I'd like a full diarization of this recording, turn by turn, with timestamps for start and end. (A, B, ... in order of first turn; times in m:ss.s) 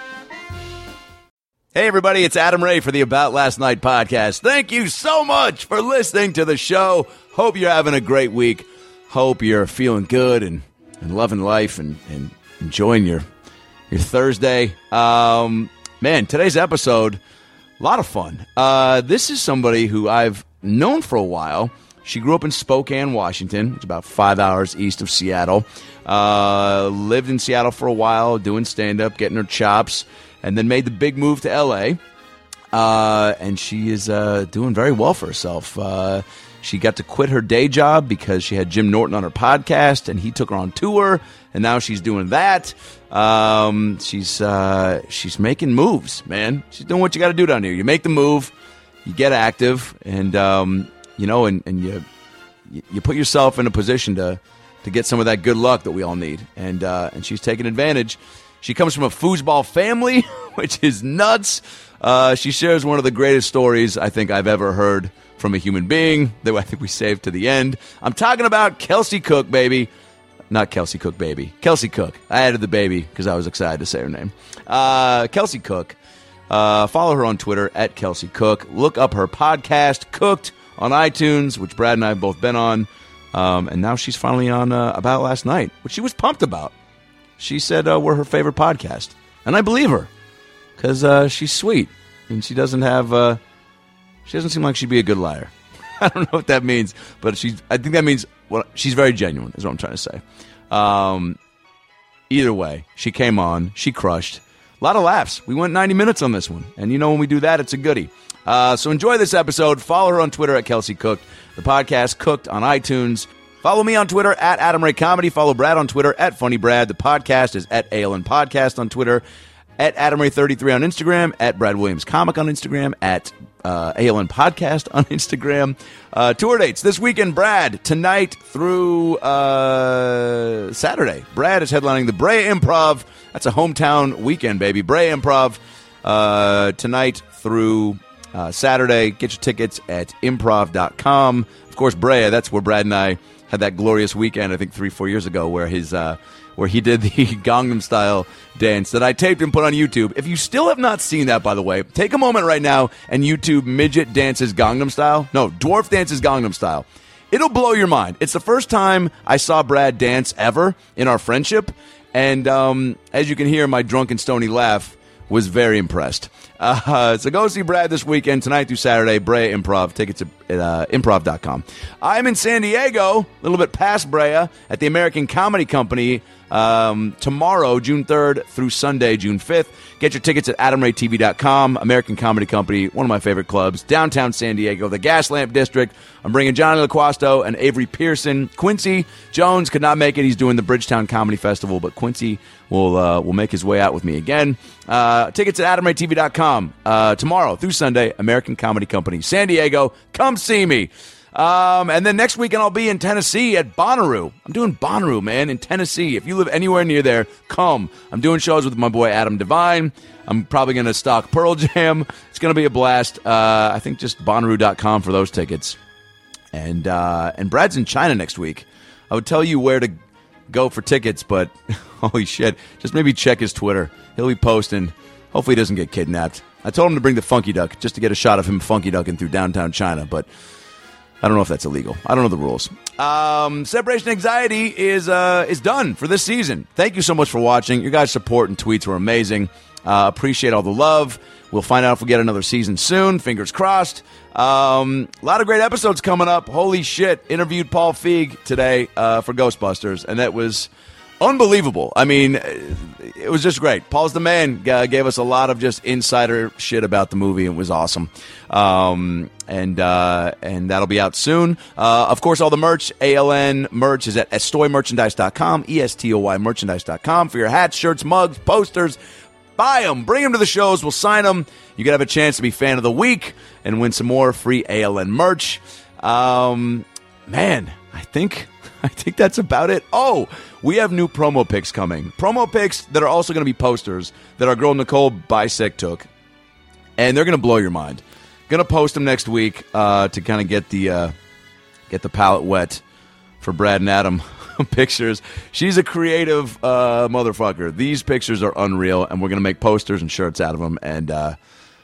0:01.7-0:13.2 A
0:13.9-0:17.2 A
0:17.8-0:32.0 A
0:32.7-0:48.5 A
0:49.0-0:52.0 A
0:52.7-1:09.9 A
1:10.5-1:16.0 A
1:16.5-1:26.7 A
1:27.4-1:30.1 A
1:30.8-1:33.4 A
1:34.3-1:41.4 A
1:42.3-1:59.2 A
1:59.8-3:35.8 A
3:36.5-3:40.0 A
3:40.5-3:50.3 A
3:51.2-4:29.0 A
4:29.6-4:46.1 A
4:47.0-4:51.1 A
4:51.9-4:52.8 A
4:53.4-5:01.4 A